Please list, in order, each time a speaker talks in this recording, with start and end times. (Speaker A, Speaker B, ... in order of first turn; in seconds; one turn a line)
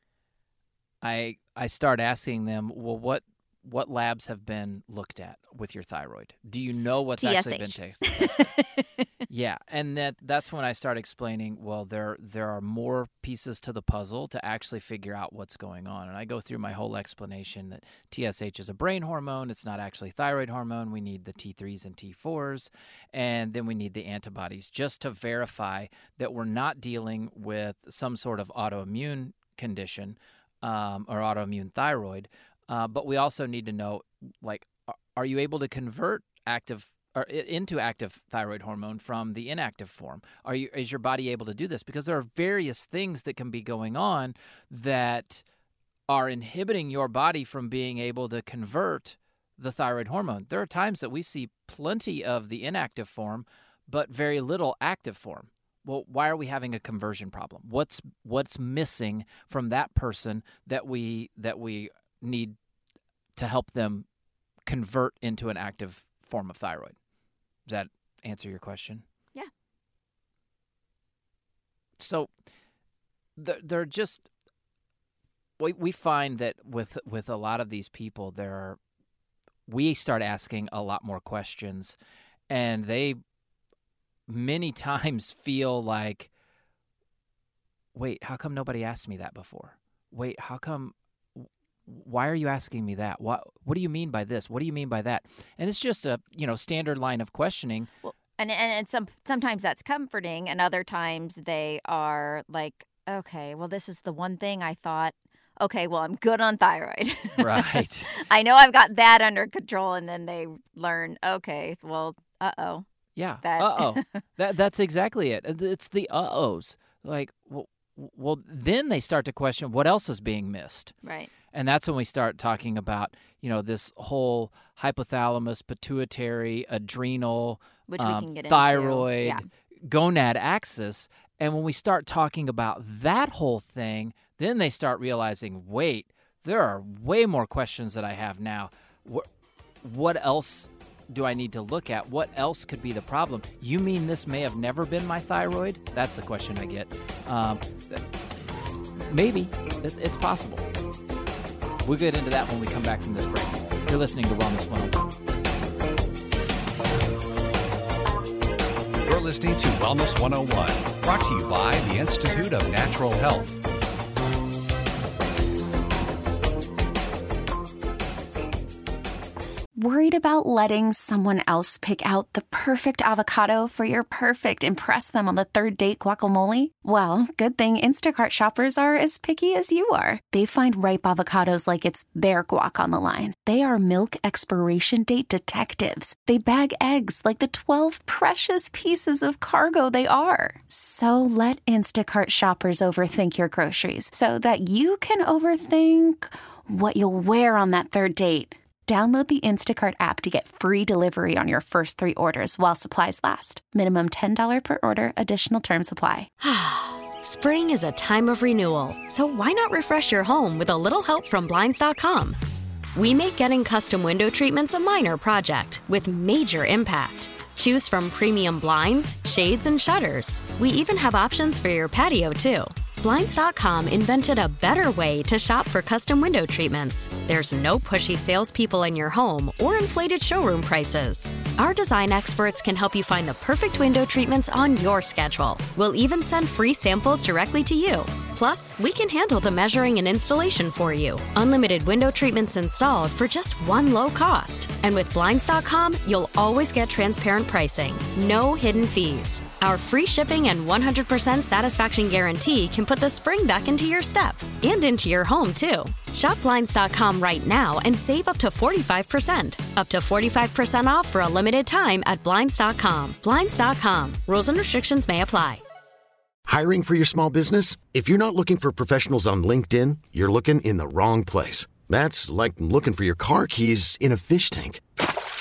Speaker A: 1.0-8.5
Speaker B: 7.2-9.0
Speaker A: 9.3-45.4
Speaker A: 46.1-62.6
Speaker A: 63.4-64.1
Speaker A: 64.7-67.0
Speaker A: 67.7-69.0
Speaker A: 72.0-72.3
Speaker A: 73.4-74.3
Speaker A: 75.6-78.8
Speaker A: 79.7-82.0
Speaker A: 82.5-83.2
Speaker A: 84.3-86.3
Speaker A: 88.0-97.9
Speaker B: 98.0-112.8
Speaker A: 107.4-108.1
Speaker A: 113.2-120.9
Speaker B: 113.4-114.1
Speaker B: 121.0-121.3
Speaker A: 121.5-139.3
Speaker B: 127.9-129.5
Speaker A: 139.8-148.1
Speaker A: 149.0-150.7
Speaker A: 151.8-155.1
Speaker C: 159.1-163.6
Speaker D: 169.8-206.3
Speaker E: 206.4-212.4
Speaker E: 212.9-265.6
Speaker F: 266.5-274.8